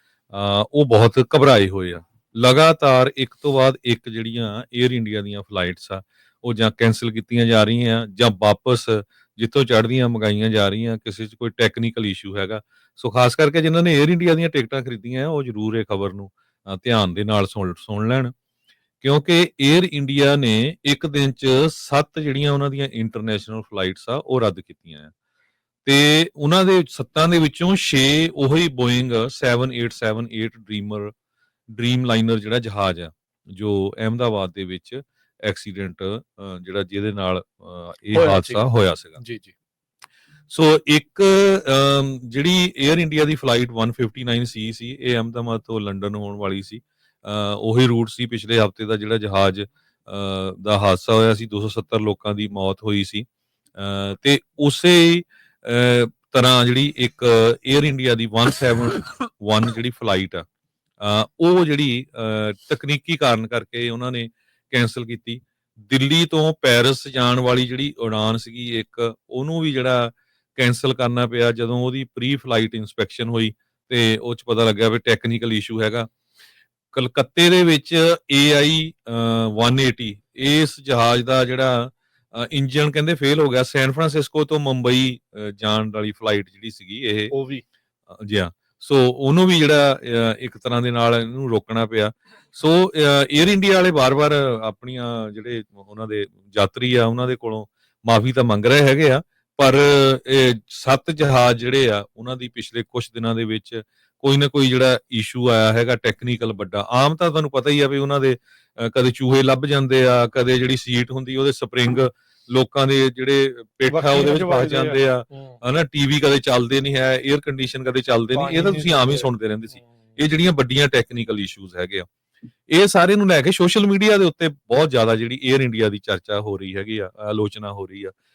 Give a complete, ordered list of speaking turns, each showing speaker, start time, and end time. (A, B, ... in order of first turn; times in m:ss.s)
0:00.3-0:18.3 A
0:19.0-0:25.1 A
0:25.8-0:31.1 A
0:31.7-0:39.2 A
0:38.1-0:39.5 B
0:40.5-1:00.5 A
1:01.0-1:16.1 A
1:16.9-1:27.3 A
1:27.3-1:27.6 B
1:28.2-2:02.1 A
1:53.9-1:55.6 B
1:58.3-2:00.2 B
2:02.7-2:08.1 A